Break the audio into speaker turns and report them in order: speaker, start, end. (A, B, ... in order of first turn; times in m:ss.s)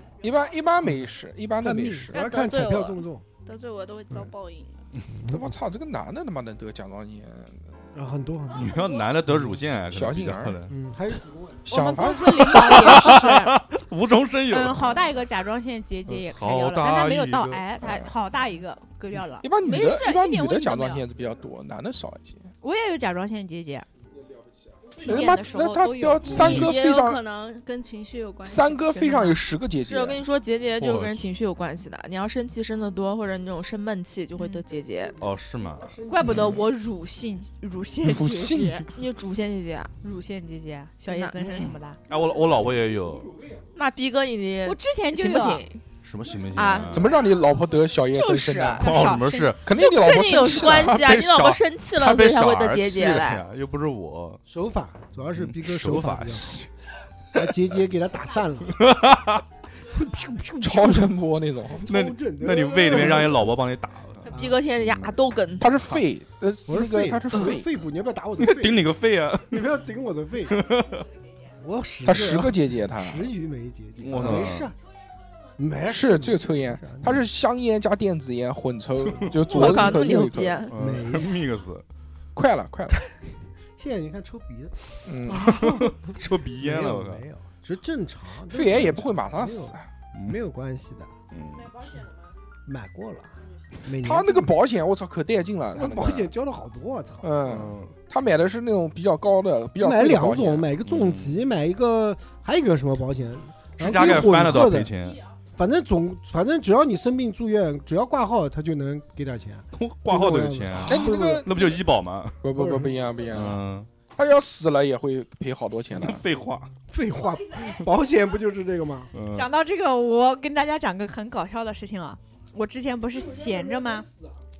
0:00.2-0:02.4 A
0:01.6-0:03.2 B
0:02.1-0:04.9 C
0:05.1-0:05.6 B
0:05.3-0:07.6 A
0:07.9-0:09.6 B
0:08.5-0:10.7 D
0:09.9-0:10.6 A
0:10.7-0:11.8 B
0:11.7-0:13.0 A
0:11.7-0:13.6 E
0:12.5-0:15.2 D
0:14.5-0:21.0 E
0:16.1-0:17.6 D
0:17.8-0:18.1 A
0:19.4-0:22.5 A
0:22.6-0:23.8 E
0:24.8-0:27.2 A
0:24.9-0:26.6 E
0:26.3-0:29.4 C
0:28.4-0:30.2 A
0:29.9-0:35.1 F
0:30.8-0:31.2 D
0:34.4-0:34.6 E
0:35.2-0:35.9 D
0:35.8-0:36.6 B
0:36.1-0:38.9 E
0:38.0-0:38.9 A
0:38.9-0:39.9 F
0:40.0-0:42.0 E
0:41.0-0:41.4 F
0:41.5-0:43.3 D
0:43.7-0:45.8 F
0:44.6-0:45.7 E
0:46.0-0:47.2 D
0:46.6-0:47.0 F
0:46.9-0:48.9 A
0:48.1-0:53.4 F
0:48.8-0:49.6 D
0:48.9-0:49.6 E
0:49.6-0:51.0 A
0:50.5-0:54.4 D
0:54.4-0:56.6 B
0:55.3-0:56.7 D
0:57.4-0:58.9 B
0:58.7-0:59.4 D
0:59.8-1:01.1 B
1:00.6-1:01.9 A
1:01.8-1:03.5 B
1:01.8-1:05.1 D
1:04.2-1:05.7 F
1:04.3-1:04.6 B
1:05.6-1:07.8 A
1:06.7-1:08.9 B
1:08.4-1:09.8 D
1:09.5-1:10.6 B
1:10.5-1:11.1 D
1:11.6-1:14.7 B
1:12.0-1:13.3 A
1:14.0-1:14.7 D
1:14.2-1:14.6 A
1:15.6-1:17.2 B
1:15.8-1:20.6 A
1:19.4-1:20.7 F
1:19.5-1:20.0 B
1:20.7-1:21.8 D
1:20.7-1:21.4 B
1:22.4-1:23.0 A
1:23.8-1:31.1 B
1:25.1-1:25.6 A
1:25.4-1:27.2 D
1:28.5-1:29.9 A
1:30.1-1:30.4 D
1:31.3-1:31.8 D
1:32.6-1:34.5 B
1:34.0-1:36.3 A
1:35.7-1:37.3 B
1:37.2-1:40.7 A
1:37.5-1:37.9 D
1:39.8-1:44.9 B
1:40.8-1:41.5 D
1:43.8-1:45.2 D
1:45.6-1:51.5 B
1:49.7-1:52.4 D
1:50.8-1:51.7 A
1:52.4-1:53.6 A
1:52.6-1:52.9 B
1:53.3-1:53.9 D
1:54.2-1:56.2 A
1:55.9-1:56.7 D
1:56.9-1:59.1 B
1:59.1-1:59.5 D
1:59.3-2:04.1 E